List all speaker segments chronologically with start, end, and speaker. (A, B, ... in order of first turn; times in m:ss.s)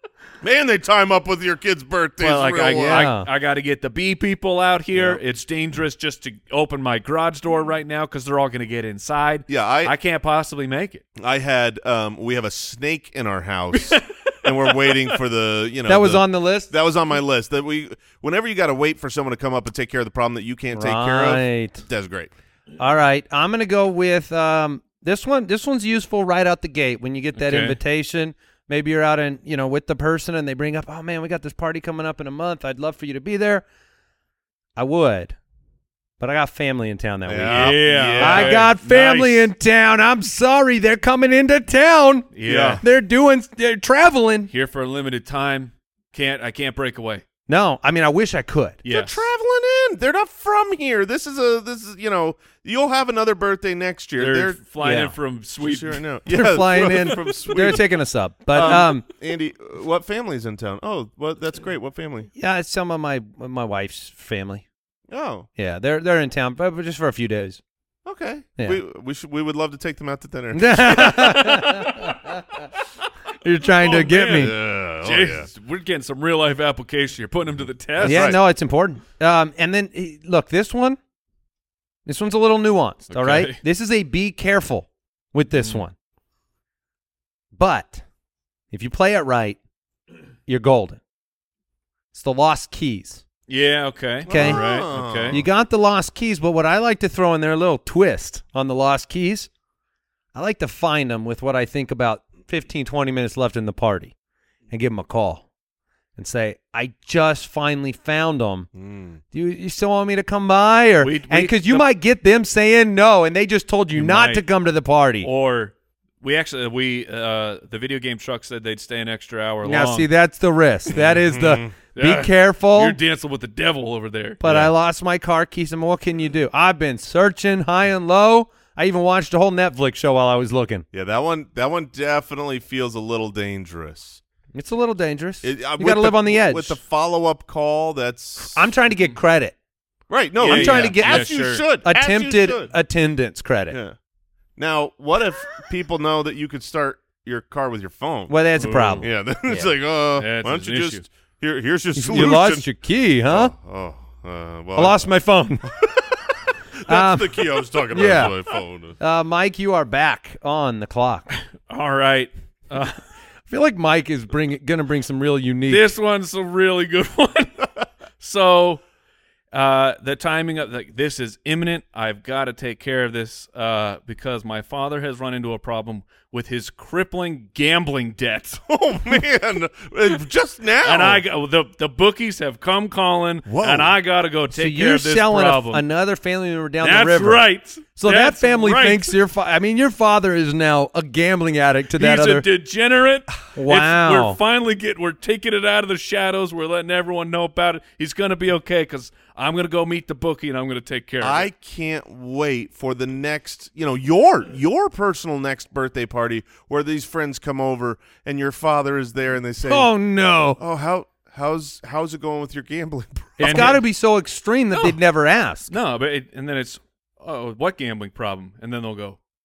0:00.4-0:03.1 A
0:02.2-0:11.0 B
0:02.7-0:03.3 C
0:09.5-0:09.9 A
0:11.2-0:22.3 A
0:13.7-0:15.1 B
0:15.9-0:16.7 C
0:20.7-0:21.8 C
0:22.8-0:33.6 C
0:27.4-0:27.8 B
0:34.8-0:35.4 C
0:36.2-0:44.5 C
0:37.3-0:38.6 A
0:37.4-0:39.5 B
0:42.3-0:42.8 B
0:42.4-0:42.8 A
0:44.5-0:47.2 B
0:47.5-0:48.8 C
0:48.8-0:49.3 B
0:48.9-0:54.6 A
0:54.2-0:56.0 B
0:54.8-0:55.1 C
0:55.6-0:57.8 A
0:56.3-0:59.0 C
0:56.9-0:57.3 B
0:58.5-1:02.3 A
1:02.4-1:04.6 C
1:05.1-1:05.5 A
1:05.6-1:07.6 C
1:08.0-1:11.5 A
1:10.5-1:12.4 C
1:11.0-1:12.1 B
1:13.4-1:14.6 C
1:13.8-1:18.4 B
1:14.3-1:15.5 A
1:18.0-1:18.4 A
1:18.0-1:21.0 C
1:22.0-1:25.9 C
1:23.1-1:23.6 B
1:25.6-1:25.8 B
1:27.5-1:28.0 C
1:28.7-1:29.6 C
1:30.5-1:31.0 C
1:32.1-1:33.2 C
1:33.5-1:35.4 B
1:34.3-1:34.6 C
1:34.3-1:35.5 A
1:35.3-1:39.5 C
1:40.3-1:44.1 C
1:44.7-1:45.4 C
1:46.2-1:48.7 C
1:48.7-1:49.2 A
1:49.3-1:55.3 C
1:51.0-1:51.8 B
1:53.9-1:54.4 B
1:55.2-2:00.1 B
1:59.6-2:03.0 C
2:00.9-2:01.7 A
2:01.9-2:04.7 B
2:04.4-2:10.8 C
2:10.9-2:14.2 A
2:14.5-2:16.8 C
2:15.4-2:18.7 A
2:18.4-2:19.5 C
2:20.1-2:22.7 A
2:20.4-2:21.6 B
2:20.4-2:21.3 C
2:21.8-2:23.8 C
2:23.7-2:24.0 A
2:24.6-2:28.4 A
2:28.3-2:29.1 C
2:28.6-2:31.0 B
2:29.0-2:32.6 A
2:31.9-2:33.5 C
2:33.3-2:35.1 A
2:34.7-2:35.7 C
2:35.7-2:36.2 A
2:36.8-2:39.0 A
2:36.9-2:38.4 C
2:39.0-2:41.3 C
2:41.6-2:43.0 B
2:43.5-2:45.9 C
2:45.7-2:48.8 B
2:49.5-2:58.6 B
2:58.6-3:01.2 A
3:00.8-3:05.8 B
3:03.4-3:03.9 A
3:04.5-3:12.4 C
3:06.8-3:09.1 B
3:12.0-3:21.5 B
3:13.5-3:14.4 C
3:21.2-3:29.9 A
3:29.6-3:30.6 C
3:30.6-3:33.8 A
3:33.4-3:35.7 C
3:33.4-3:33.8 B
3:34.7-3:35.0 B
3:35.7-3:39.2 B